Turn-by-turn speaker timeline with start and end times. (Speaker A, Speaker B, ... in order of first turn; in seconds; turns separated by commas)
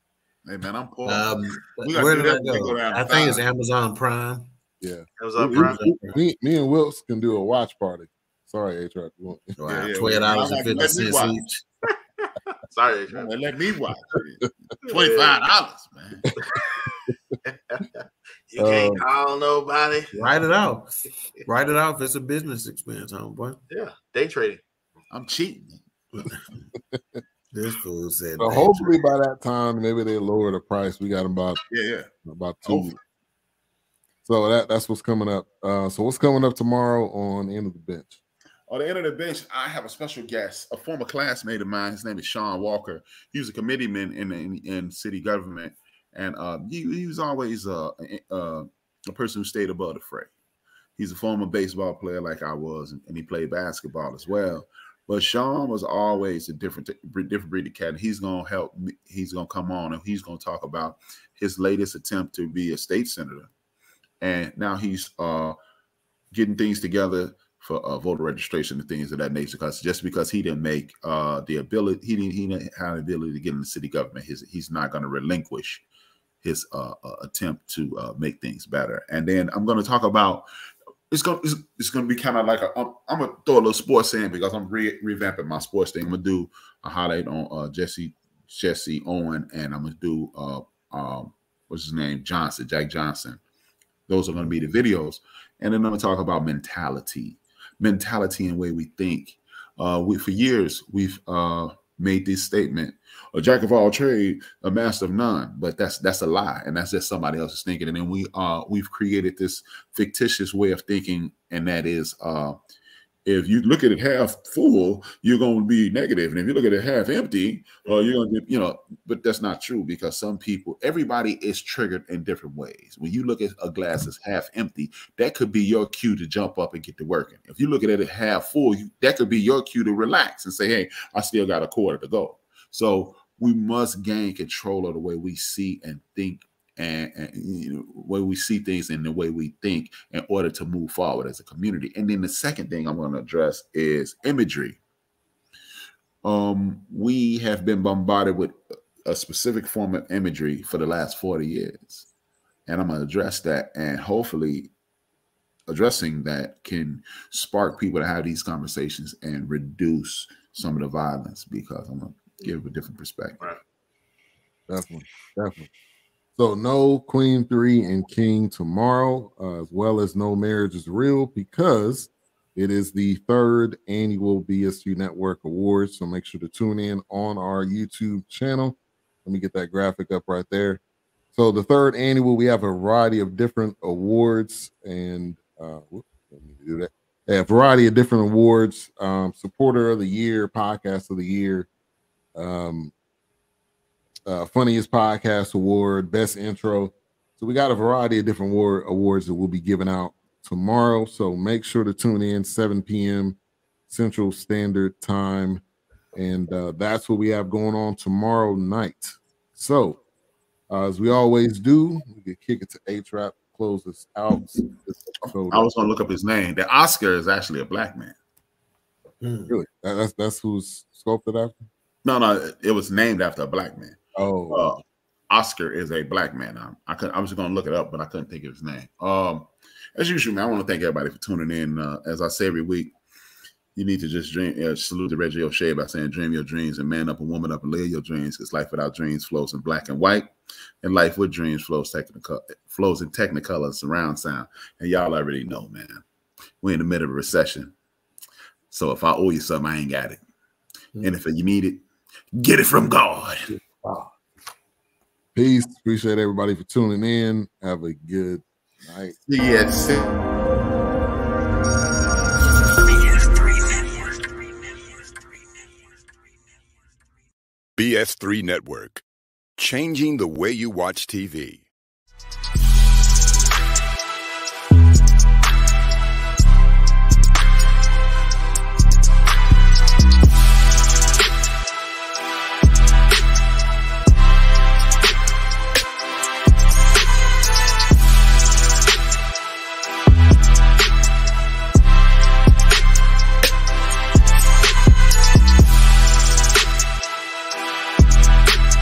Speaker A: 0.4-3.4, Speaker B: 1.0-4.5, Speaker C: 4.8-9.9, Speaker D: 5.2-5.8, Speaker B: 5.5-6.2, Speaker B: 9.6-11.6, Speaker A: 9.7-11.4, Speaker D: 12.2-13.3, Speaker A: 13.1-16.3, Speaker C: 14.1-14.5, Speaker D: 14.8-15.4, Speaker C: 16.2-17.1, Speaker D: 16.4-20.3, Speaker C: 18.6-19.1, Speaker B: 20.1-23.6, Speaker D: 23.7-24.6, Speaker A: 25.1-26.3, Speaker B: 26.1-26.6, Speaker C: 26.9-27.2, Speaker B: 27.5-29.0, Speaker C: 28.4-31.6, Speaker A: 31.7-32.1, Speaker C: 32.2-33.0, Speaker A: 32.6-32.9, Speaker C: 34.2-38.2, Speaker A: 38.7-50.3, Speaker A: 51.0-63.5, Speaker A: 64.2-65.5, Speaker A: 66.3-75.8, Speaker A: 76.4-80.5, Speaker A: 81.1-93.4, Speaker A: 94.1-112.5, Speaker A: 113.2-144.8, Speaker D: 117.8-118.1, Speaker A: 146.2-152.1, Speaker A: 152.7-154.7, Speaker A: 155.7-163.6, Speaker C: 164.7-165.7, Speaker C: 166.3-180.8, Speaker C: 181.3-191.7, Speaker C: 192.3-192.9, Speaker C: 194.3-203.4, Speaker C: 203.9-205.6, Speaker C: 206.1-210.0, Speaker C: 210.7-215.7, Speaker A: 215.5-218.1, Speaker B: 219.2-219.6, Speaker C: 219.5-221.6, Speaker A: 222.0-224.0, Speaker C: 224.2-224.7, Speaker A: 224.5-232.9, Speaker A: 233.7-240.3, Speaker A: 240.8-246.0, Speaker A: 246.6-247.7, Speaker A: 248.7-250.2, Speaker A: 251.0-251.8, Speaker A: 252.3-253.5, Speaker C: 253.5-254.1, Speaker C: 255.3-259.1, Speaker A: 259.2-260.1, Speaker E: 267.8-269.0, Speaker E: 269.6-271.6